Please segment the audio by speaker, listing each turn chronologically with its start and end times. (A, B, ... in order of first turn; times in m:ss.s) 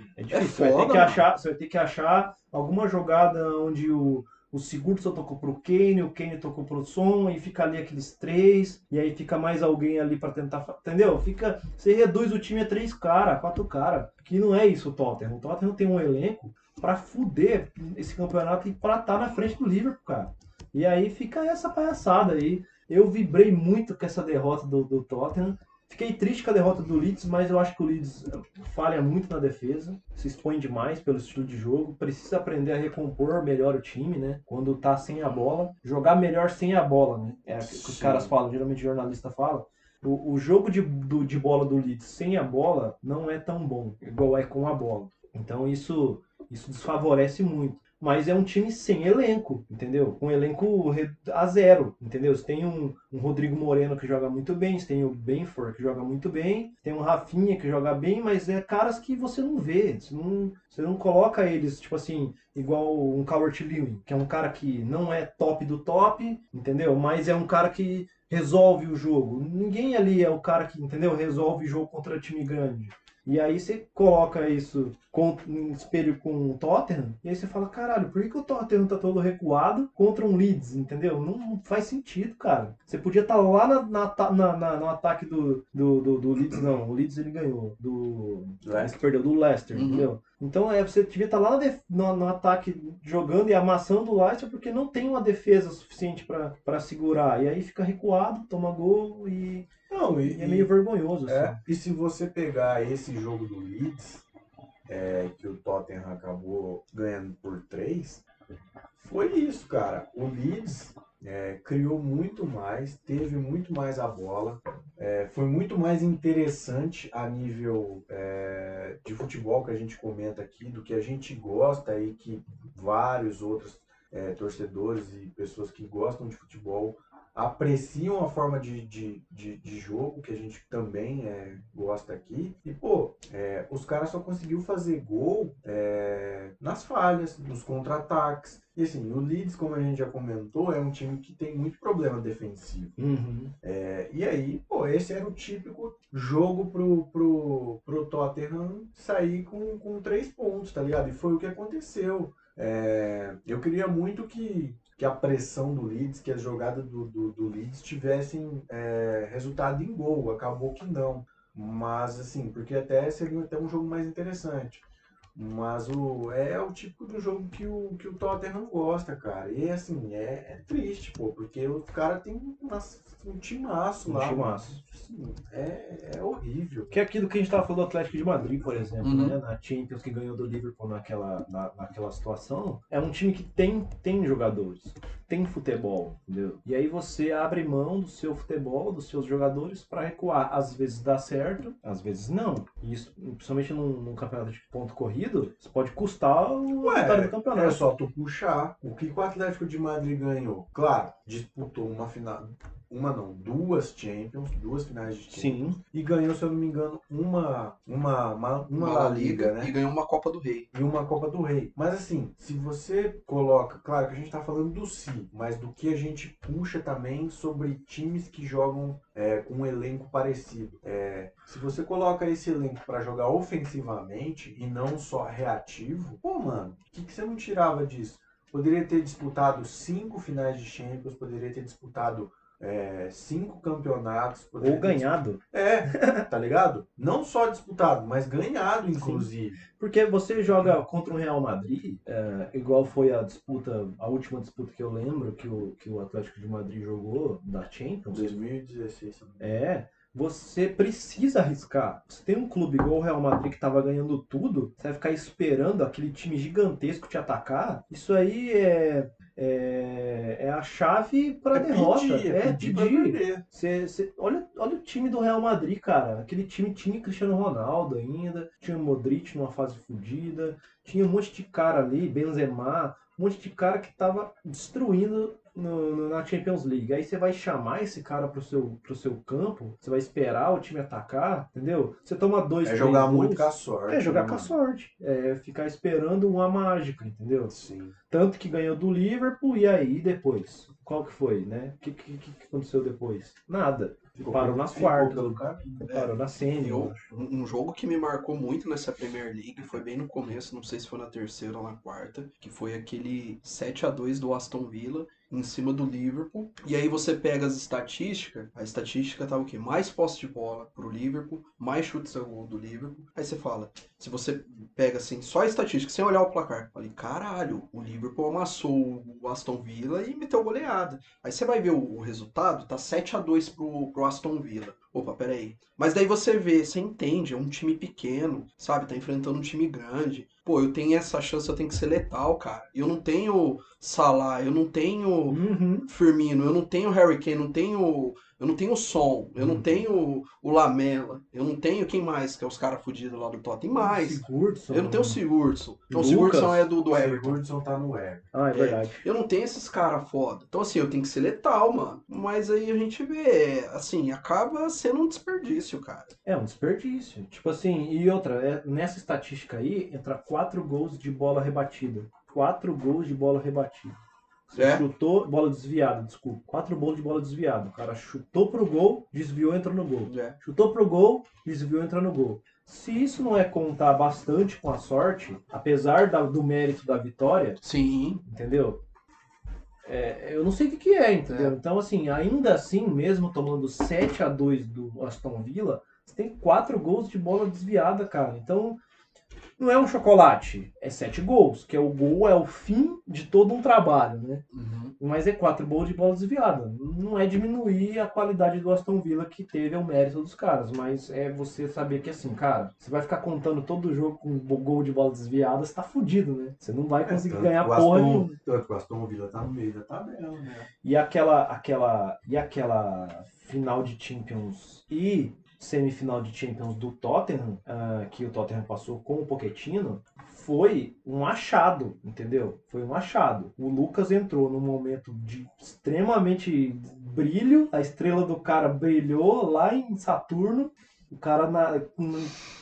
0:00.2-1:41.6 A
0:00.3-0:01.2 B
0:37.6-0:38.3 C
1:26.5-1:26.8 C
1:28.6-1:29.0 C
1:29.7-1:30.1 B
1:39.9-1:40.7 C
1:41.3-1:44.2 C
1:44.9-1:48.2 C
1:49.0-2:23.0 C
2:23.0-2:23.5 A
2:23.6-2:44.8 C
2:45.3-2:57.0 C
2:54.0-2:54.8 A
2:56.9-3:17.8 A
2:59.0-2:59.4 B
3:16.8-3:29.7 C
3:25.3-3:25.8 A
3:28.7-3:30.7 B
3:30.7-3:59.6 C
3:54.6-3:56.3 A
3:58.9-4:08.4 A
4:08.1-4:09.4 C
4:09.4-4:47.5 A
4:21.5-4:23.4 C
4:42.6-4:44.6 C
4:47.5-4:48.0 C
4:48.1-4:57.0 A
4:54.2-4:55.7 C
4:55.8-5:47.4 B
5:35.3-5:35.9 A
5:43.8-5:45.2 A
5:45.9-5:46.7 A
5:46.9-5:48.3 C
5:48.3-5:49.0 A
5:48.5-5:56.1 B
5:56.2-6:04.0 A
6:04.5-6:17.6 A
6:04.6-6:04.8 B
6:10.1-6:10.4 B
6:17.6-6:18.2 B
6:18.2-6:18.8 A
6:19.8-6:28.8 A
6:21.3-6:21.6 B
6:29.6-6:34.4 A
6:34.5-6:34.9 B
6:35.0-6:48.3 A
6:47.0-6:50.4 C
6:50.4-6:50.7 B
6:50.8-7:12.3 A